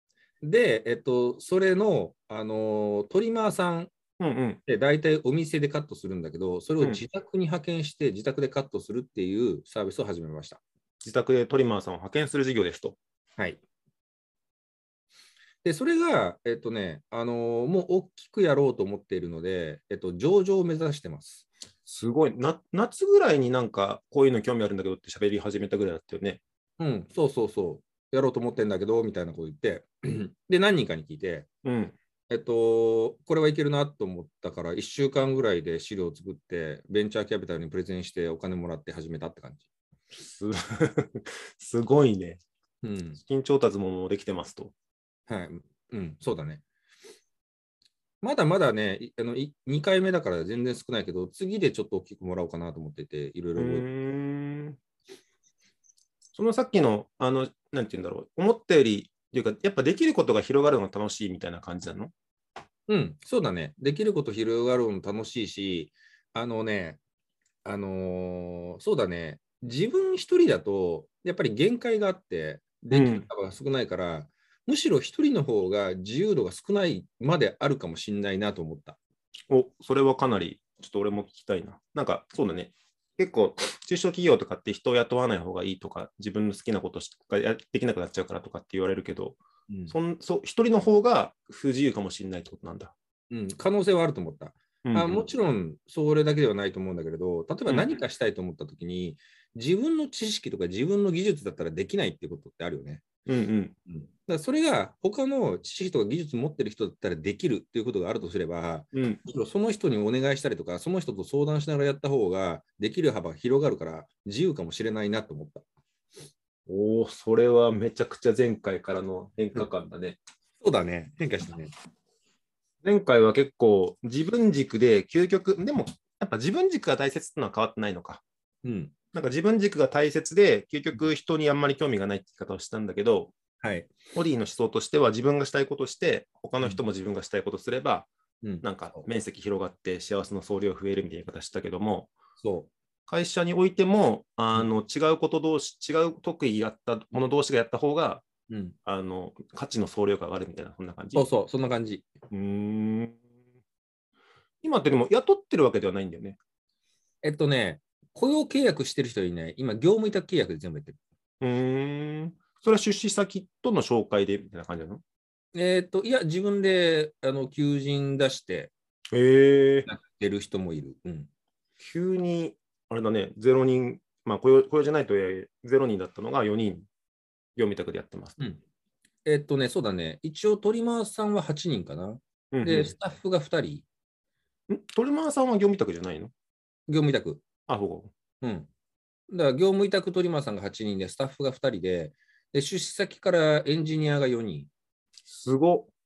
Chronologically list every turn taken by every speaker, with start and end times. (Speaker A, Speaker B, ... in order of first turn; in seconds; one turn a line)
Speaker A: 0.4-3.9
Speaker B: 4.2-4.6
Speaker A: 4.7-10.6
Speaker B: 11.0-13.0
Speaker A: 15.6-21.4
Speaker B: 21.9-26.4
Speaker A: 26.8-31.5
Speaker B: 31.6-31.9
Speaker A: 32.3-39.6
Speaker B: 40.2-42.4
Speaker A: 42.8-43.2
Speaker B: 43.2-44.7
Speaker A: 45.3-46.6
Speaker A: 48.2-53.9
Speaker B: 53.6-54.8
Speaker B: 56.3-62.1
Speaker A: 62.9-67.0
Speaker A: 67.6-79.0
Speaker B: 72.9-73.3
Speaker B: 79.5-92.9
Speaker A: 93.3-103.0
Speaker B: 94.8-95.2
Speaker B: 97.7-97.9
Speaker B: 103.2-103.7
Speaker A: 103.9-115.6
Speaker B: 108.9-109.2
Speaker B: 116.7-120.2
Speaker A: 120.6-121.7
Speaker B: 122.8-128.2
Speaker A: 128.6-128.9
Speaker B: 129.1-133.3
Speaker A: 133.6-133.9
Speaker B: 134.1-138.1
Speaker A: 138.4-139.1
Speaker B: 138.6-142.1
Speaker A: 142.4-142.7
Speaker B: 143.1-148.2
Speaker A: 148.5-148.7
Speaker B: 148.8-151.2
Speaker A: 151.1-152.1
Speaker B: 152.3-153.2
Speaker B: 154.6-156.4
Speaker A: 157.2-161.0
Speaker B: 161.4-165.0
Speaker A: 165.5-168.7
Speaker B: 169.1-169.9
Speaker A: 169.9-171.3
Speaker B: 171.8-176.9
Speaker B: 177.6-178.4
Speaker A: 179.2-183.8
Speaker B: 182.5-182.9
Speaker B: 184.7-186.3
Speaker A: 186.9-187.4
Speaker B: 187.7-188.1
Speaker A: 188.4-188.7
Speaker A: 189.3-194.7
Speaker B: 195.3-195.9